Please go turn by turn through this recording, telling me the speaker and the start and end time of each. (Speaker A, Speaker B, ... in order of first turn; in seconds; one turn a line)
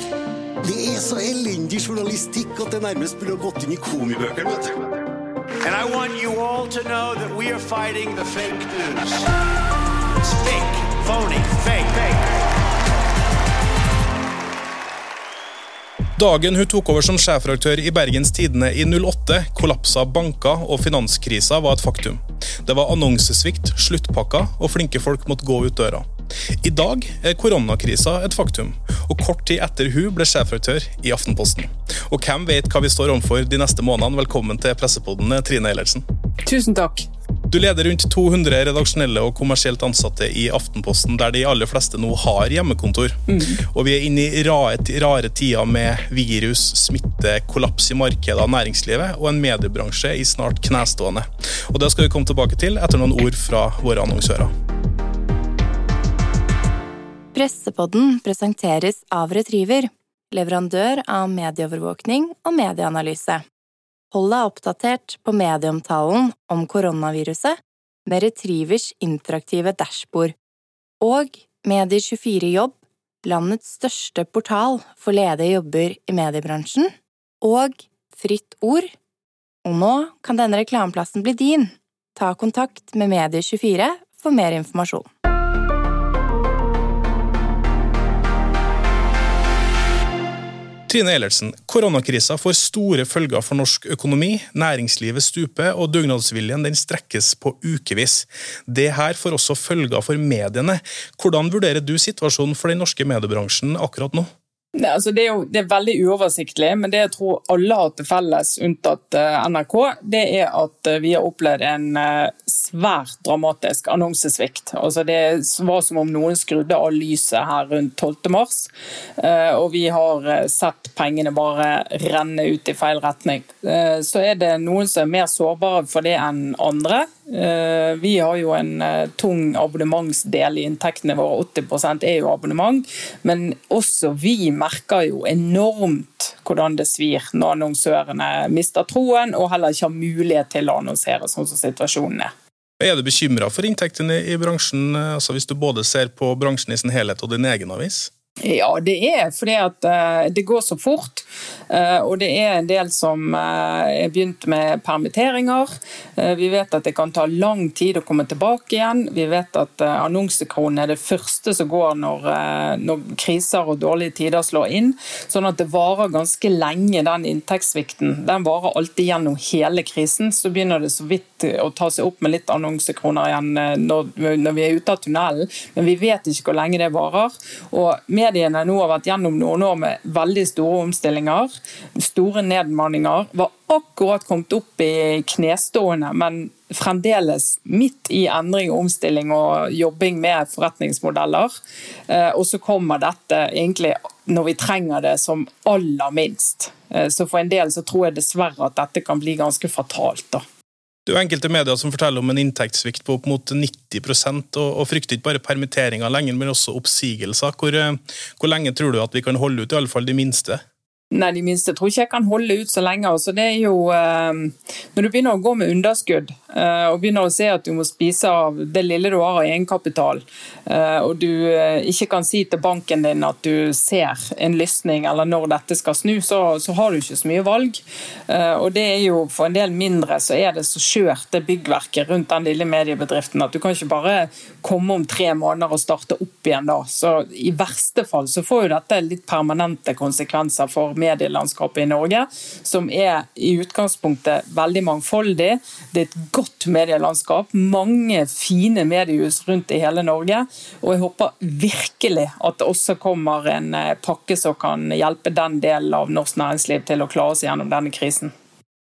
Speaker A: 0.6-5.0
Speaker B: 5.6-9.3
Speaker B: 10.2-12.3
Speaker C: 16.2-26.1
Speaker C: 26.6-36.0
Speaker D: 36.4-37.1
Speaker C: 37.5-54.5
Speaker D: 43.3-43.6
Speaker E: 57.3-63.4
Speaker E: 64.1-70.3
Speaker E: 71.0-78.9
Speaker E: 79.7-85.1
Speaker C: 90.9-104.3
Speaker D: 104.8-142.3
Speaker C: 142.8-148.1
Speaker D: 148.4-191.5
Speaker D: 192.1-200.4
Speaker C: 201.1-210.6
Speaker D: 211.1-258.3